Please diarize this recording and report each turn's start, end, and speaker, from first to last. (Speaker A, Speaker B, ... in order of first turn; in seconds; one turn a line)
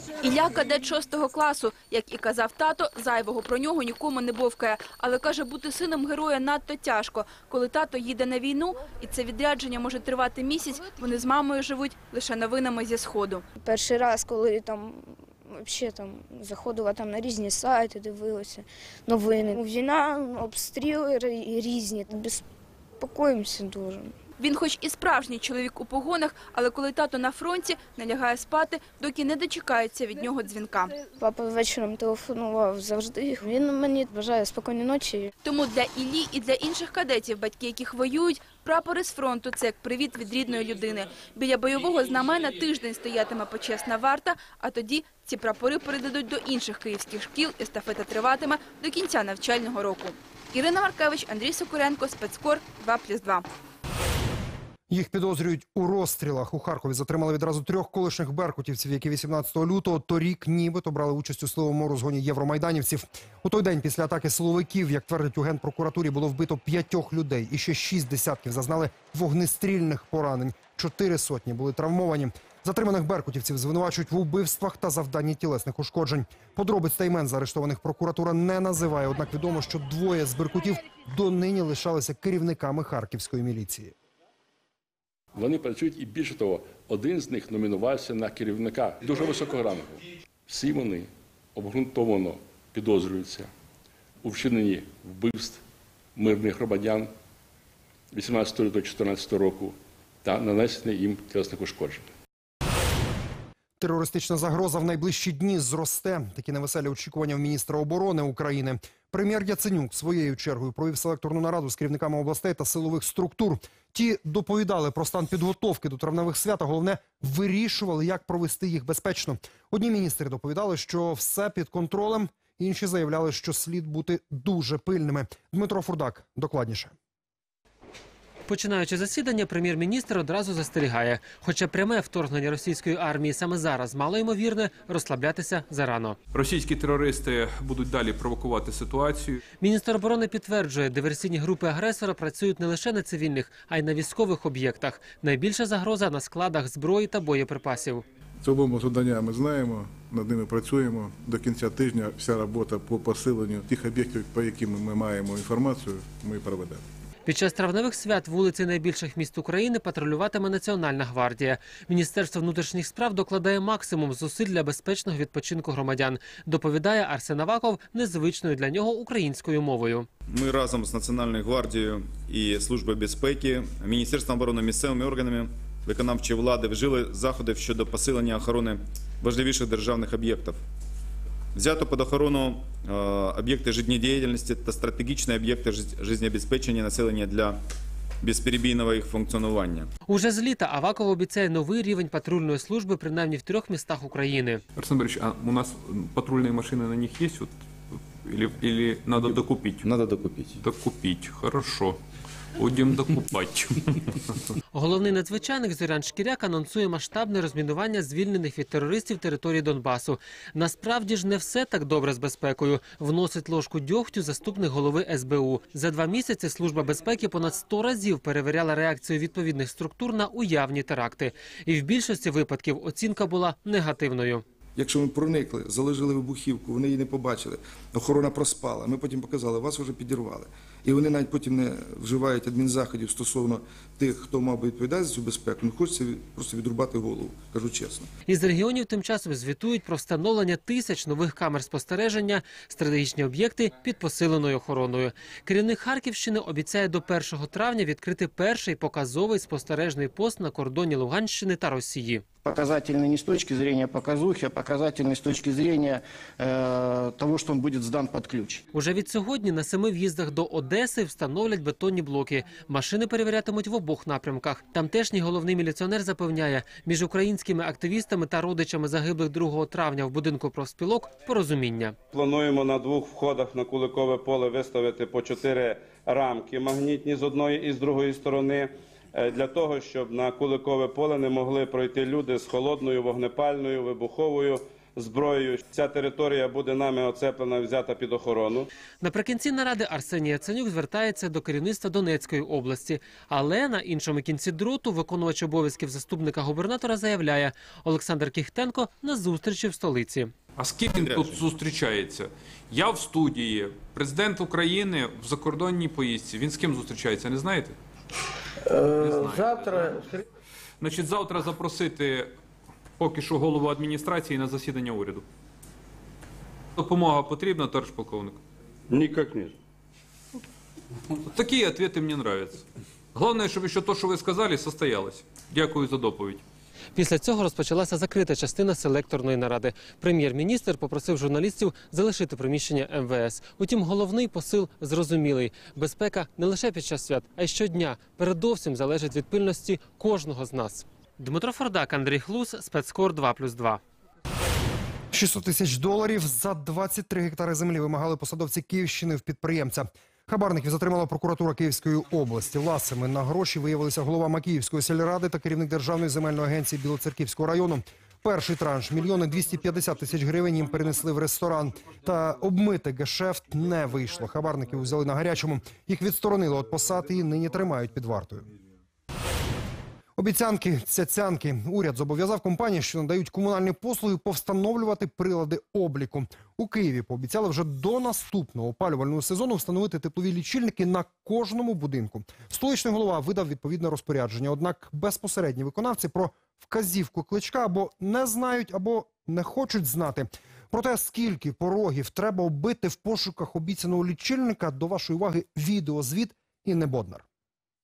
Speaker A: 0.2-13.4
Speaker B: 13.6-22.4
Speaker B: 23.0-24.1
Speaker A: 24.4-31.0
Speaker B: 31.2-35.3
Speaker A: 35.4-53.5
Speaker C: 54.9-83.9
Speaker D: 85.3-93.5
Speaker D: 94.2-95.6
Speaker D: 96.1-97.1
Speaker D: 98.1-102.1
Speaker C: 103.8-126.9
Speaker E: 128.5-136.2
Speaker F: 136.3-139.4
Speaker E: 139.6-148.0
Speaker G: 148.4-156.8
Speaker E: 157.2-170.1
Speaker H: 170.3-180.6
Speaker H: 181.5-187.6
Speaker H: 188.2-189.9
Speaker E: 190.1-194.6
Speaker F: 194.7-197.5
Speaker F: 198.1-199.9
Speaker F: 200.6-202.0
Speaker F: 202.6-204.2
Speaker E: 204.7-224.4
Speaker I: 224.8-238.1
Speaker E: 238.3-252.2
Speaker J: 252.4-258.6
Speaker E: 258.7-271.9
Speaker K: 272.1-288.7
Speaker E: 289.0-300.3
Speaker F: 300.6-307.8
Speaker H: 301.0-301.3
Speaker F: 308.9-310.1
Speaker F: 310.8-312.3
Speaker F: 313.0-315.2
Speaker F: 316.8-318.4
Speaker K: 318.9-319.5
Speaker F: 321.3-326.4
Speaker E: 326.9-343.8
Speaker C: 345.1-368.5
Speaker C: 370.2-397.2